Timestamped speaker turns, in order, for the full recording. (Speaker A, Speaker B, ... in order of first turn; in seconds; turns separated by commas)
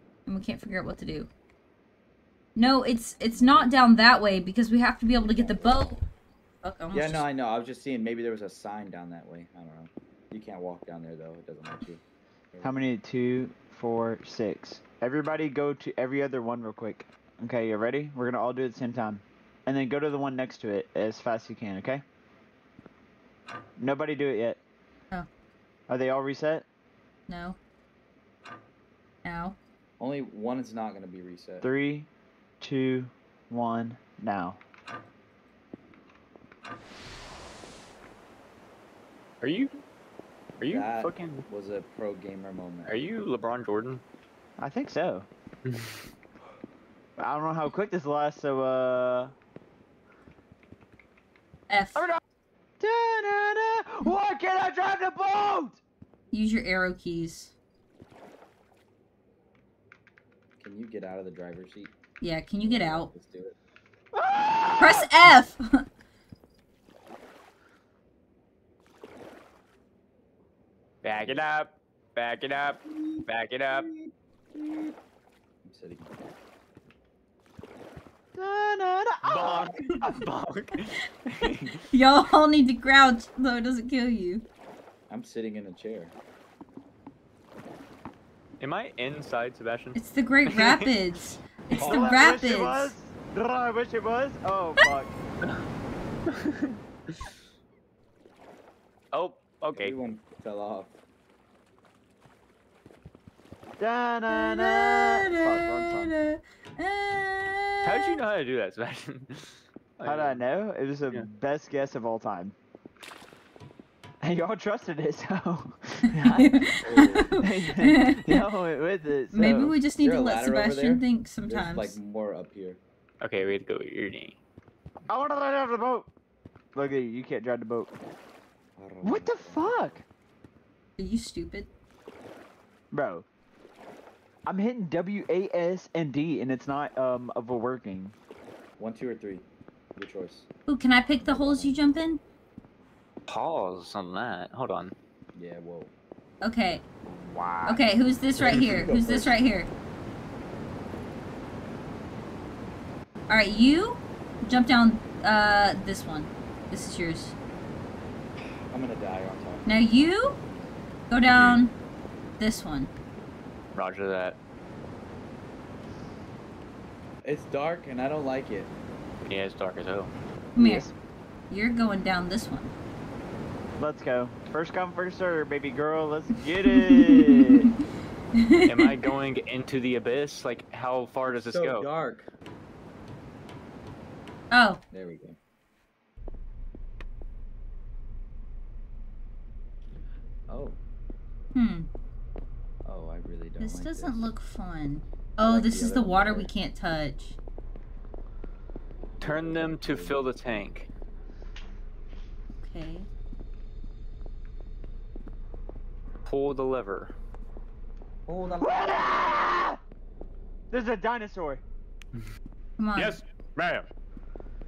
Speaker A: 0.2-1.3, Speaker A: 2.5-6.0, Speaker B: 3.3-3.8, Speaker B: 5.2-5.9, Speaker A: 6.6-7.2, Speaker B: 6.9-12.0, Speaker B: 12.5-12.8, Speaker C: 12.6-22.0, Speaker C: 23.8-24.6, Speaker C: 25.9-26.6, Speaker A: 27.3-27.6, Speaker A: 29.2-29.6, Speaker B: 30.0-31.7, Speaker C: 31.6-32.1, Speaker C: 32.6-34.6, Speaker D: 39.4-39.7, Speaker D: 40.6-41.4, Speaker B: 40.6-43.0, Speaker D: 42.9-44.0, Speaker C: 44.6-45.3, Speaker D: 45.6-46.0, Speaker C: 47.2-49.3, Speaker A: 51.7-52.1, Speaker C: 52.8-55.8, Speaker A: 56.3-57.5, Speaker B: 60.6-61.9, Speaker A: 62.2-63.1, Speaker B: 62.6-63.5, Speaker C: 64.1-65.1, Speaker A: 64.8-65.8, Speaker D: 71.0-73.9, Speaker B: 71.0-71.5, Speaker C: 74.6-74.9, Speaker B: 75.6-76.2, Speaker C: 78.3-80.1, Speaker D: 79.2-81.8, Speaker A: 81.9-84.4, Speaker B: 85.1-86.1, Speaker D: 88.6-91.4, Speaker A: 89.9-92.9, Speaker C: 91.7-95.2, Speaker B: 91.7-92.2, Speaker D: 96.3-97.2, Speaker D: 99.1-99.9, Speaker B: 99.7-100.9, Speaker C: 103.8-106.2, Speaker A: 104.3-108.2, Speaker D: 107.8-110.4, Speaker C: 110.0-112.5, Speaker C: 114.2-119.8, Speaker A: 116.2-118.4, Speaker B: 116.8-117.3, Speaker A: 119.3-122.0, Speaker B: 120.0-122.8, Speaker D: 123.2-124.4, Speaker C: 125.1-126.1, Speaker C: 126.7-127.9, Speaker B: 128.8-130.0, Speaker C: 129.0-130.0, Speaker A: 131.0-131.7, Speaker C: 132.9-133.2, Speaker C: 134.5-138.1, Speaker B: 138.8-140.5, Speaker A: 140.7-142.2, Speaker B: 141.2-141.9, Speaker D: 143.3-144.9, Speaker B: 145.3-145.9, Speaker A: 146.4-146.8, Speaker C: 147.1-147.8, Speaker A: 147.6-149.7, Speaker B: 148.4-149.4, Speaker A: 153.3-157.3, Speaker B: 158.7-159.7, Speaker A: 159.7-160.4, Speaker A: 161.1-161.7, Speaker D: 161.2-161.6, Speaker A: 162.4-162.9, Speaker D: 163.7-164.4, Speaker B: 167.2-168.7, Speaker D: 169.2-170.1, Speaker A: 170.6-170.9, Speaker C: 170.6-170.9, Speaker A: 171.5-172.7, Speaker C: 173.8-177.7, Speaker A: 176.7-177.6, Speaker A: 178.3-178.9, Speaker D: 178.6-181.9, Speaker B: 181.2-182.3, Speaker A: 184.5-184.8, Speaker B: 184.9-185.4, Speaker B: 190.5-190.8, Speaker A: 191.5-191.9, Speaker B: 192.8-194.3, Speaker A: 193.6-197.4, Speaker B: 195.4-196.5, Speaker B: 199.2-200.6, Speaker D: 199.2-200.9, Speaker A: 202.6-203.1, Speaker D: 206.2-207.1, Speaker B: 208.3-208.9, Speaker C: 208.6-209.8, Speaker C: 210.7-211.6, Speaker A: 212.8-213.2, Speaker D: 212.9-213.9